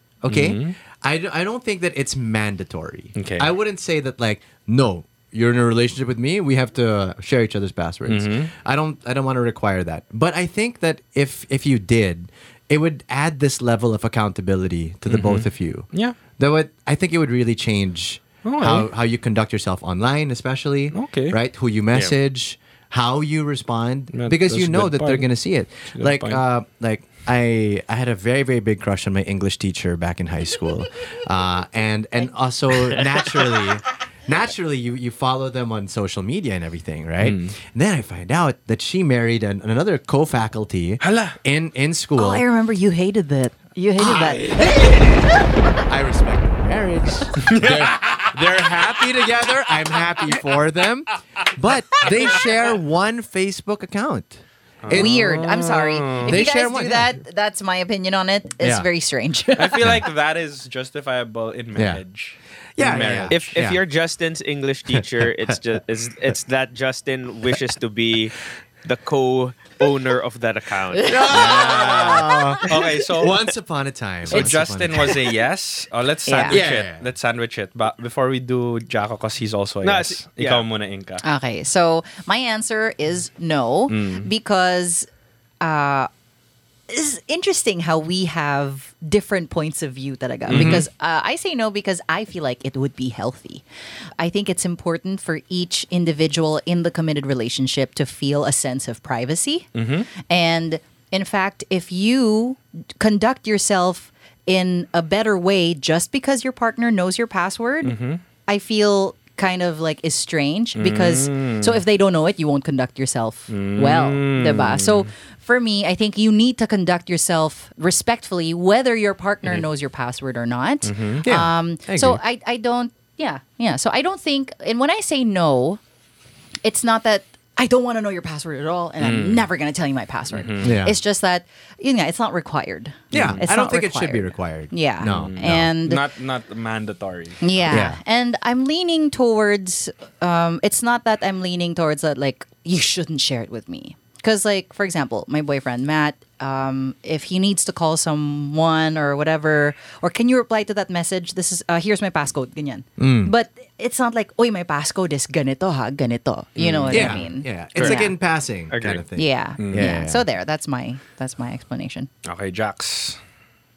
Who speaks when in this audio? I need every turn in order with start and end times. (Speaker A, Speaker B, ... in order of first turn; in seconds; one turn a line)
Speaker A: 0.2-42.4
Speaker B: 0.3-0.8
Speaker B: 3.1-3.5
Speaker B: 8.0-8.5
Speaker B: 15.1-16.2
Speaker B: 18.4-18.9
Speaker B: 20.9-21.4
Speaker B: 24.1-25.3
Speaker B: 25.9-26.4
Speaker B: 37.2-37.5
Speaker B: 41.0-41.4
Speaker C: 42.2-45.5
Speaker A: 44.0-45.1
Speaker A: 45.8-55.2
Speaker B: 47.4-49.1
Speaker B: 54.8-56.4
Speaker C: 54.9-59.9
Speaker A: 56.2-57.2
Speaker A: 58.6-58.9
Speaker B: 59.5-63.5
Speaker A: 61.7-62.0
Speaker A: 62.8-63.8
Speaker D: 63.3-71.8
Speaker C: 71.0-72.7
Speaker A: 71.0-75.2
Speaker B: 71.3-73.5
Speaker B: 74.2-81.2
Speaker C: 76.2-76.6
Speaker A: 76.5-77.0
Speaker D: 79.8-80.7
Speaker C: 81.2-85.1
Speaker B: 83.9-84.3
Speaker C: 85.6-86.1
Speaker C: 86.9-93.6
Speaker B: 90.5-90.8
Speaker A: 90.5-90.8
Speaker C: 94.2-125.8
Speaker B: 99.7-100.1
Speaker B: 107.8-108.2
Speaker B: 110.7-111.8
Speaker B: 113.5-115.1
Speaker B: 120.8-121.2
Speaker A: 121.2-122.2
Speaker C: 126.6-136.0
Speaker B: 129.0-129.5
Speaker B: 130.3-130.8
Speaker A: 130.6-131.0
Speaker A: 133.1-135.7
Speaker B: 133.1-133.5
Speaker B: 135.1-137.7
Speaker C: 137.4-158.2
Speaker A: 137.7-138.0
Speaker A: 153.0-153.3
Speaker B: 156.6-157.3
Speaker A: 156.9-160.2
Speaker D: 157.8-158.0
Speaker D: 158.7-159.0
Speaker C: 159.2-162.1
Speaker B: 159.6-159.9
Speaker B: 162.2-163.2